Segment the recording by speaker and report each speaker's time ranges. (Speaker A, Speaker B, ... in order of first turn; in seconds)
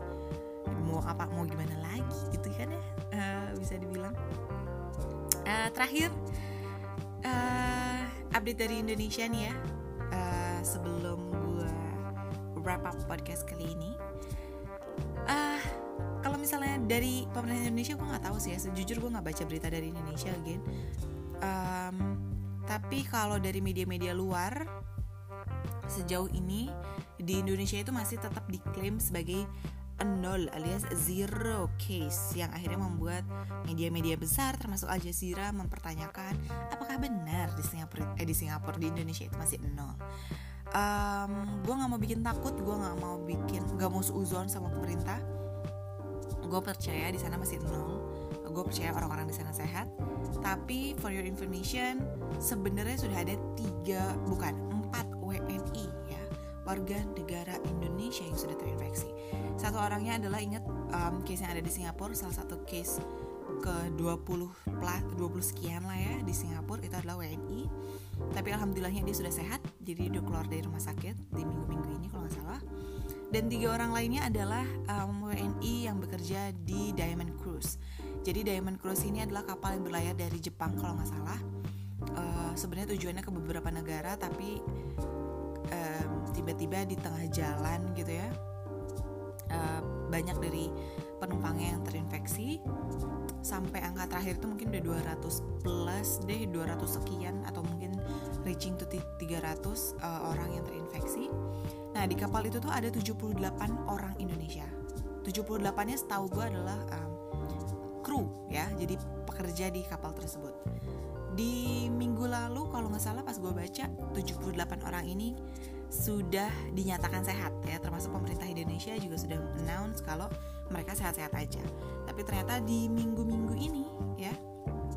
Speaker A: 0.7-4.2, 5.5-6.2, 7.2-9.6, 10.1-12.0, 12.6-14.0, 15.3-20.6, 21.4-24.7, 25.9-29.5, 30.0-40.0, 40.7-45.2, 46.5-49.9, 50.4-63.0, 63.6-67.7, 68.3-72.6, 73.3-81.4, 82.2-84.5, 85.7-88.3, 89.5-92.6, 93.5-101.3, 101.9-104.7, 105.2-107.2, 108.0-110.6, 111.3-115.3, 115.9-124.4